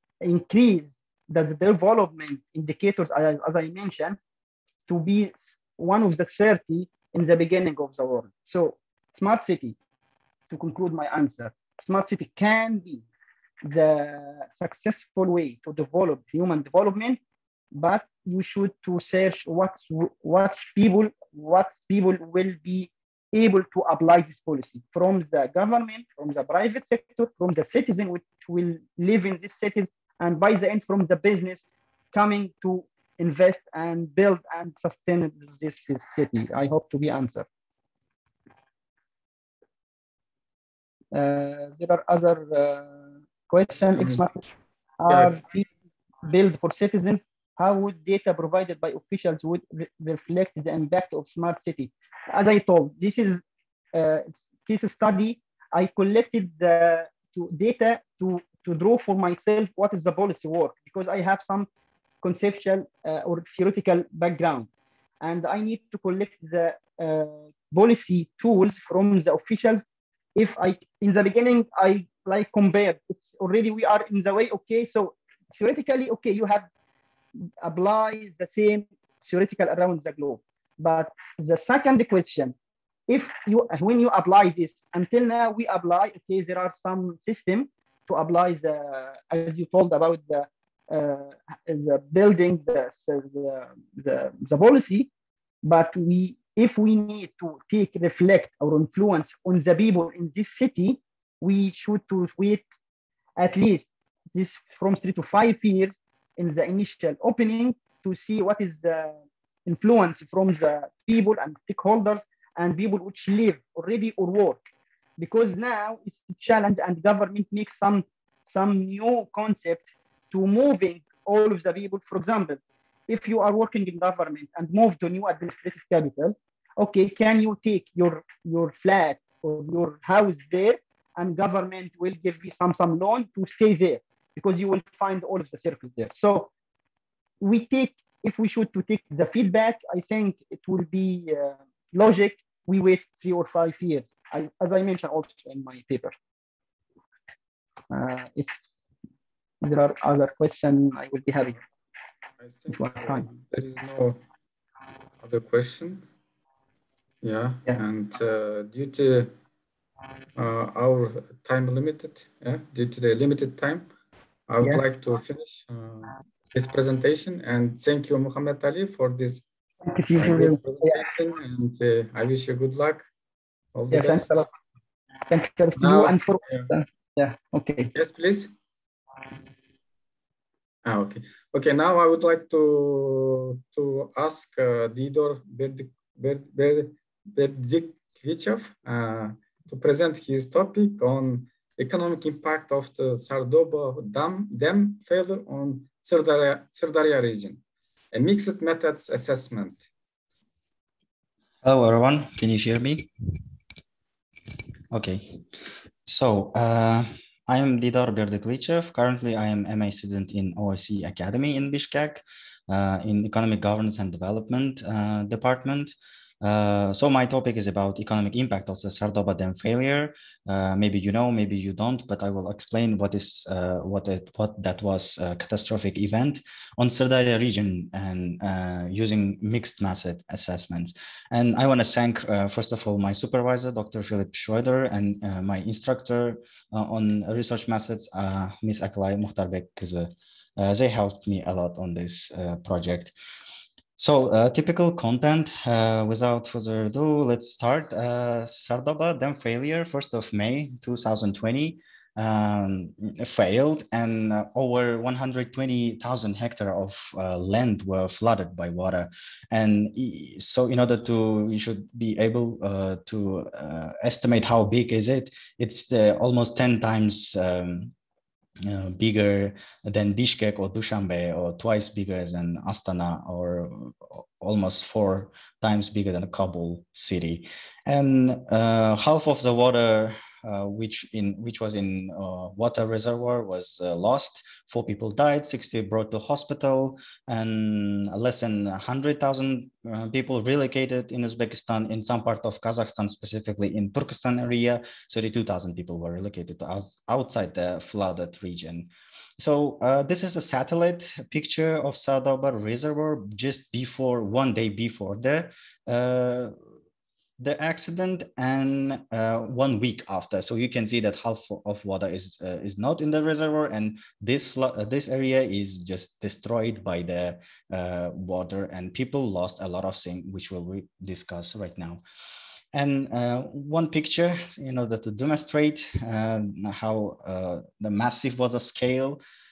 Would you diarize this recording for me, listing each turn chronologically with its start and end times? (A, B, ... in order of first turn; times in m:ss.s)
0:00.2-0:04.2 A
0:04.9-0:09.8 A
0:10.5-0:13.0 A
0:13.6-0:17.2 A
0:17.7-0:37.5 A
0:41.1-0:44.4 A
0:43.8-0:44.3 B
0:45.0-0:45.7 A
0:45.1-0:45.4 B
0:46.2-0:53.4 A
0:53.9-1:01.7 A
1:02.2-1:04.7 A
1:05.2-1:09.8 A
1:10.4-1:16.7 A
1:17.5-1:22.6 A
1:23.1-1:35.1 A
1:35.6-1:42.6 A
1:43.4-1:54.6 A
1:55.2-2:16.5 A
2:17.4-2:26.1 A
2:27.9-2:28.5 A
2:29.6-2:31.6 A
2:32.4-2:34.2 B
2:32.7-2:33.3 A
2:35.2-2:36.1 B
2:37.2-2:39.3 B
2:40.4-2:43.9 B
2:44.5-2:49.4 B
2:49.8-2:51.1 A
2:50.2-2:53.1 B
2:53.7-2:54.5 B
2:53.9-2:54.5 A
2:55.3-2:57.9 A
2:55.8-2:56.7 B
2:57.9-2:58.5 B
3:00.8-3:19.8 B
3:21.6-3:23.1 C
3:24.9-3:25.4 C
3:26.1-4:03.1 C
4:04.0-4:27.9 C
4:28.6-5:06.5 C
5:07.4-5:22.0 C
5:22.7-5:29.2 C